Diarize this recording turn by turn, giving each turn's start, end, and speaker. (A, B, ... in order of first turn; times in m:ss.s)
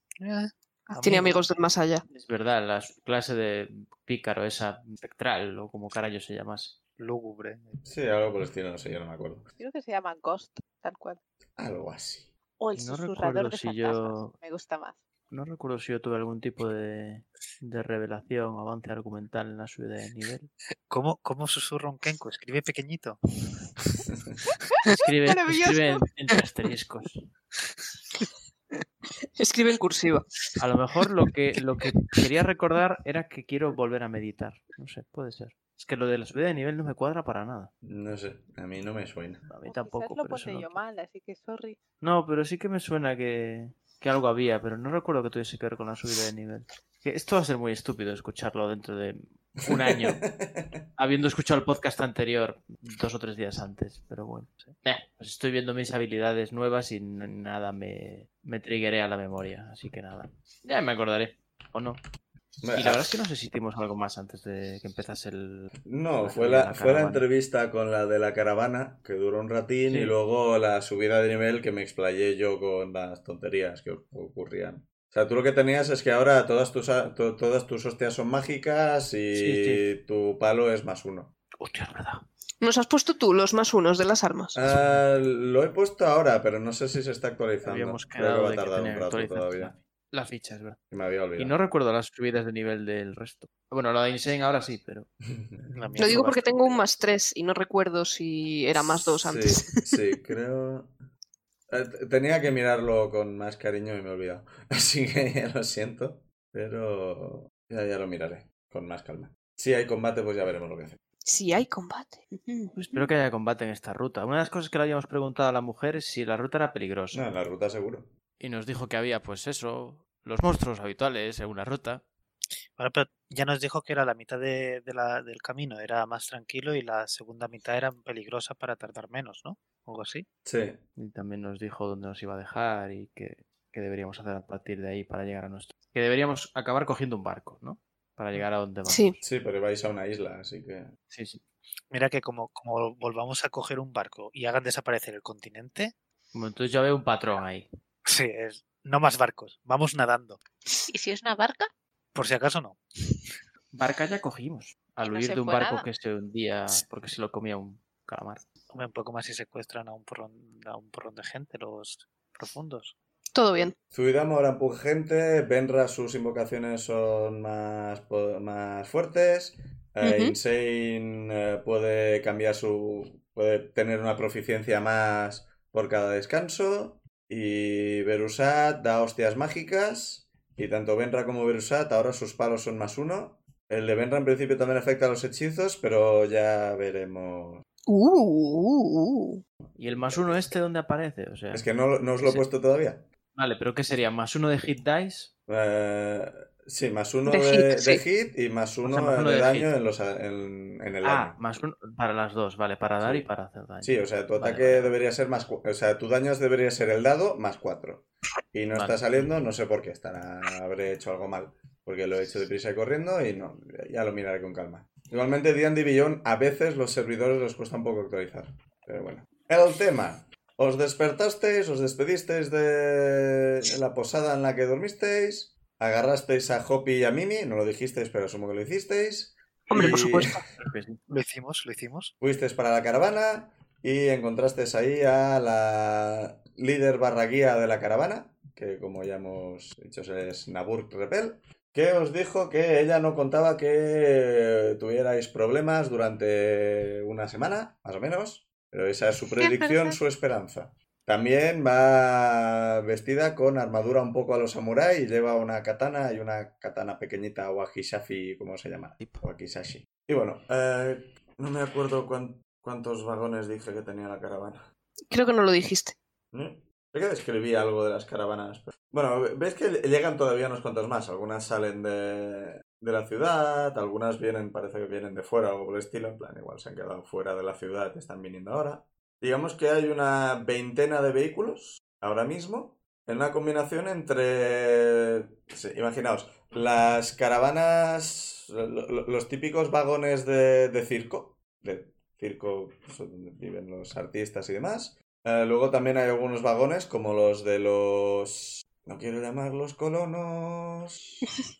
0:00.2-0:01.4 A
0:01.0-0:02.0 B
0:02.1-0:06.8 C
0:07.0-0:07.8 A
0:07.8-0:09.5 D
0:09.6-0:11.2 E
0:11.6-0:12.3 D
0:12.6-0:15.0 E
0:12.8-0:14.3 C
0:15.3-0:20.5 C
0:20.9-0:23.2 A
0:24.9-0:27.2 C
0:25.3-0:26.0 E
0:29.4-0:30.2 B
0:30.6-0:37.7 C
0:37.8-0:39.4 D
0:39.5-0:40.8 C
0:39.6-0:41.8 E
0:42.0-0:50.3 C
0:49.8-0:50.8 D
0:51.0-1:02.0 C
1:02.6-1:03.1 D
1:02.7-1:05.7 C
1:05.8-1:21.3 D
1:06.2-1:07.2 C
1:09.9-1:10.1 C
1:19.3-1:19.8 C
1:21.6-1:22.2 C
1:22.6-1:24.6 B
1:24.5-1:29.7 D
1:24.7-1:25.0 C
1:27.6-1:30.8 C
1:30.9-1:31.6 D
1:31.4-1:35.1 C
1:35.7-1:36.8 A
1:36.0-1:40.0 B
1:38.7-1:40.9 D
1:41.7-1:51.0 D
1:51.2-1:52.8 B
1:52.8-1:57.3 C
1:57.1-1:58.1 D
1:58.4-2:02.0 C
2:02.8-2:10.2 A
2:10.4-2:10.8 D
2:11.0-2:19.1 C
2:18.8-2:19.1 B
2:19.2-2:20.9 D
2:21.1-2:21.4 C
2:21.9-2:25.9 A
2:26.3-2:27.7 C
2:28.1-2:30.4 A
2:30.9-2:31.7 E
2:32.1-2:32.8 A
2:33.7-2:38.4 C
2:35.0-2:35.8 E
2:38.7-2:42.9 A
2:43.3-2:43.7 B
2:43.9-3:07.6 D
2:50.0-2:50.3 B
3:07.9-3:09.4 B
3:09.7-3:10.5 D
3:09.8-3:11.6 C
3:11.5-3:13.0 D
3:12.2-3:12.4 C
3:13.3-3:15.3 C
3:15.5-3:21.4 D
3:17.3-3:18.0 B
3:18.8-3:19.7 C
3:21.0-3:24.9 C
3:23.0-3:23.3 D
3:23.8-3:50.3 D
3:28.7-3:29.3 C
3:49.7-3:50.4 B
3:49.8-3:51.0 C
3:51.1-3:52.1 A
3:52.2-4:24.6 D
4:09.3-4:10.0 E
4:25.1-4:26.0 B
4:26.3-5:01.3 D